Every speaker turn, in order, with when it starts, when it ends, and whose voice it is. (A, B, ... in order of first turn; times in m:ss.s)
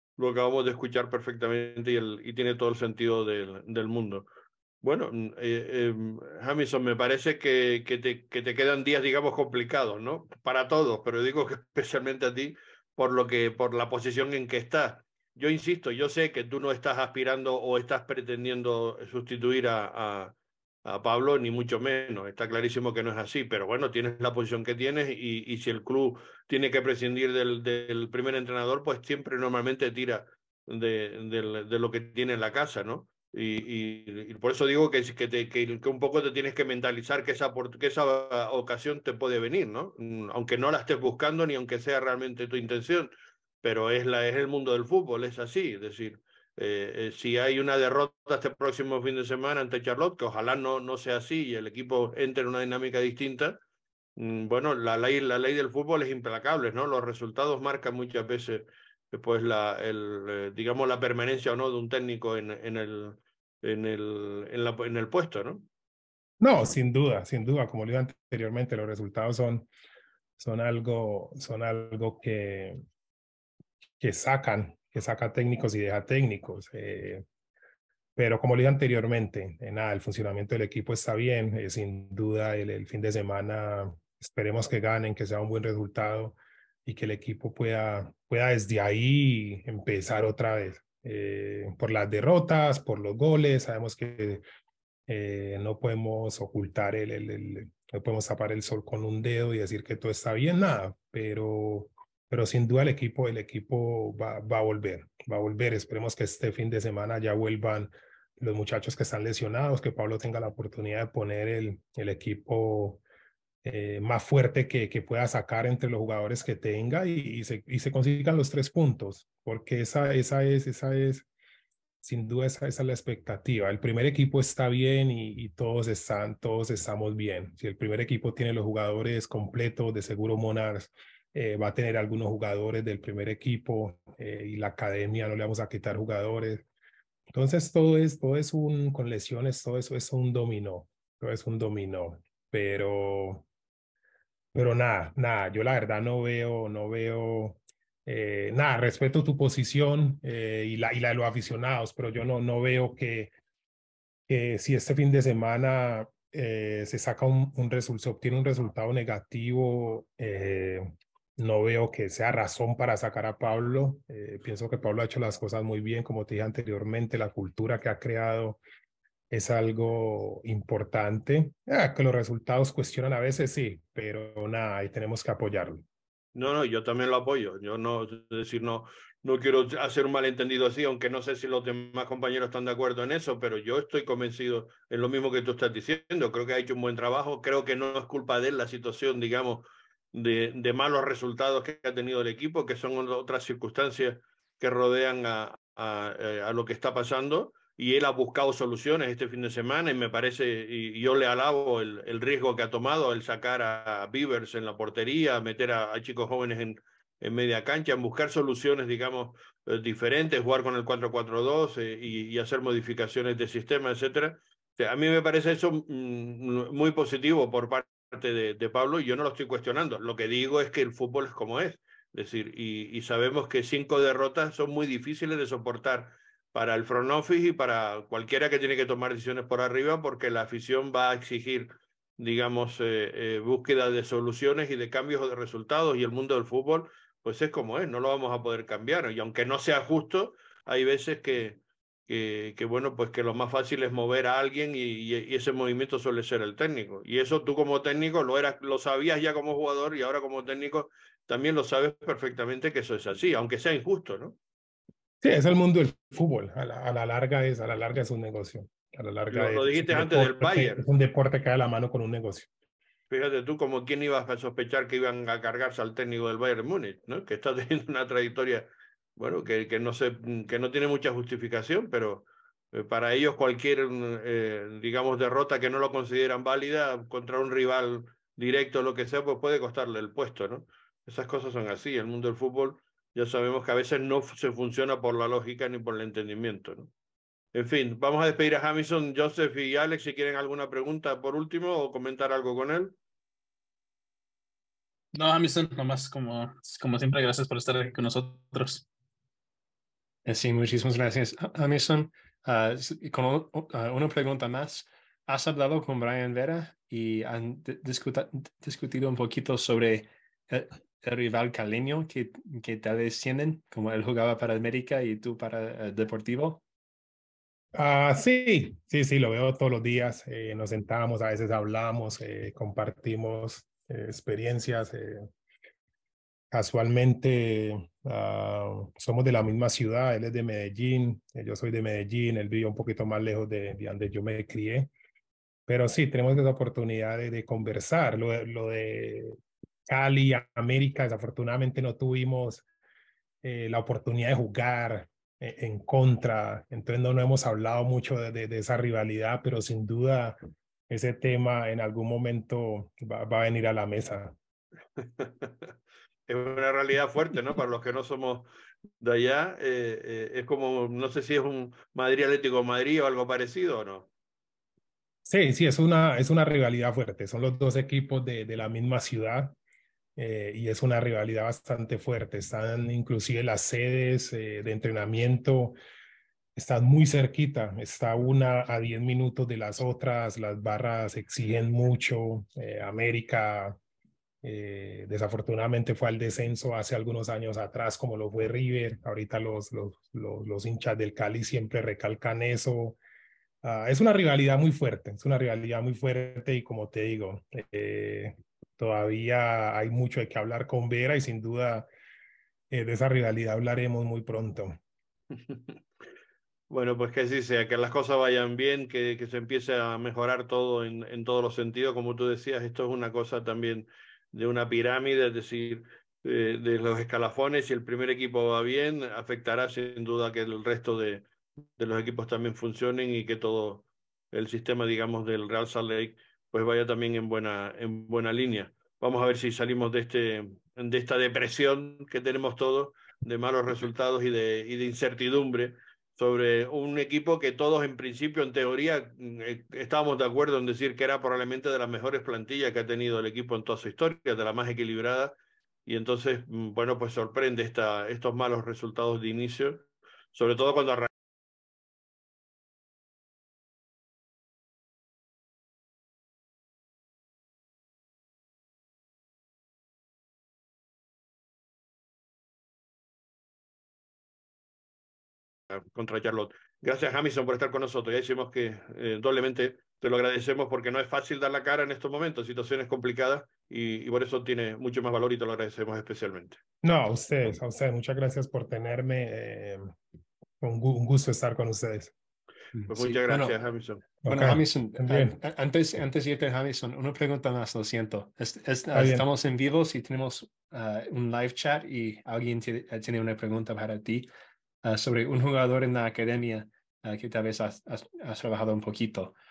0:00.2-0:04.3 A
0:04.8-0:20.3 A
0:20.8-0:43.1 A
0:43.6-0:53.6 A
0:54.2-1:05.7 A
1:06.4-1:09.7 B
1:10.4-1:12.8 B
1:14.0-1:17.2 B
1:18.2-1:34.4 B
1:35.1-1:53.0 B
1:53.6-2:01.3 B
2:02.0-2:16.6 B
2:17.3-2:23.4 B
2:24.5-2:33.3 B
2:34.3-2:48.6 B
2:49.3-2:55.8 B
2:56.4-4:14.4 A
4:15.2-4:22.5 B
4:19.3-4:20.8 A
4:23.1-4:46.9 A
4:47.5-4:53.0 A
4:55.1-4:58.8 C
5:00.2-5:16.6 D
5:17.7-5:25.3 B
5:26.5-5:34.9 B
5:35.7-5:39.4 B
5:39.9-5:42.6 B
5:43.4-5:50.4 B
5:50.9-5:54.4 B
5:55.0-5:55.7 A
5:56.3-5:58.5 A
5:59.0-6:04.1 A
6:05.3-6:09.6 B
6:10.2-6:15.7 B
6:16.6-6:23.8 B
6:24.4-6:33.0 B
6:33.6-6:41.9 B
6:42.7-6:44.8 B
6:45.5-6:45.7 A
6:46.7-7:31.1 A
7:45.7-7:56.6 A
7:56.8-7:59.9 B
8:00.6-8:02.1 B
8:02.7-8:03.6 D
8:02.9-8:04.0 A
8:04.2-8:05.4 B
8:04.3-8:14.3 D
8:08.9-8:09.3 B
8:14.8-8:19.3 D